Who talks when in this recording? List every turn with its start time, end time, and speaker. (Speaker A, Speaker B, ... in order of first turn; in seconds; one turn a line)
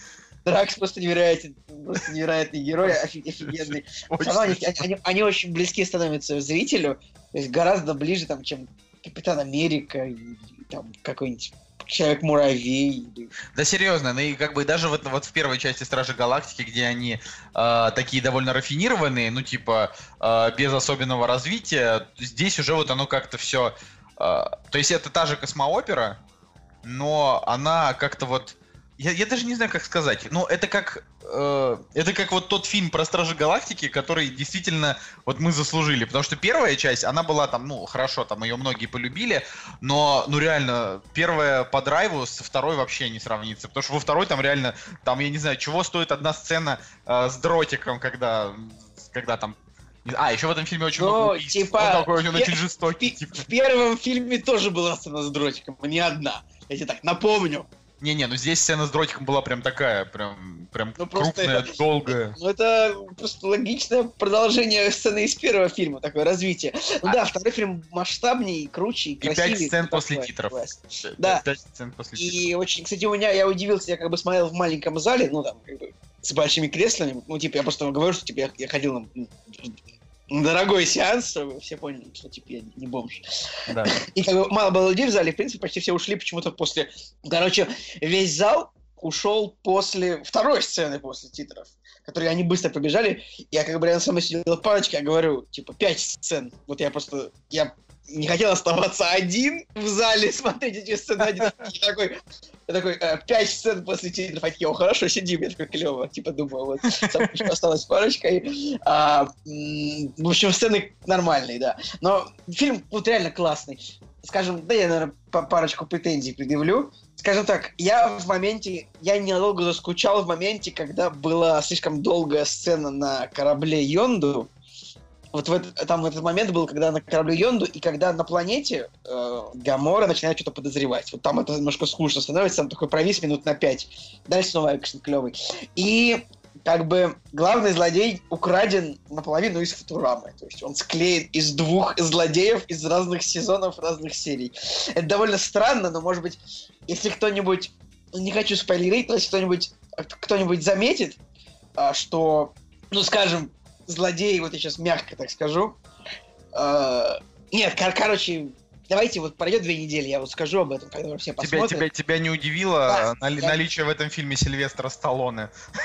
Speaker A: 0.4-13.3
Speaker B: 3.4-4.8
Speaker B: 13.5-26.2
Speaker B: 26.8-53.5
Speaker A: 50.9-57.7
Speaker B: 58.0-62.4
Speaker A: 61.0-71.4
Speaker B: 69.2-72.4
Speaker A: 72.2-79.7
Speaker A: 80.3-83.2
Speaker B: 83.7-84.0
Speaker A: 83.8-102.2
Speaker A: 102.7-124.5
Speaker B: 107.0-107.4
Speaker A: 125.3-151.2
Speaker A: 151.8-155.8
Speaker A: 156.5-161.8
Speaker B: 161.4-165.5
Speaker A: 162.9-163.6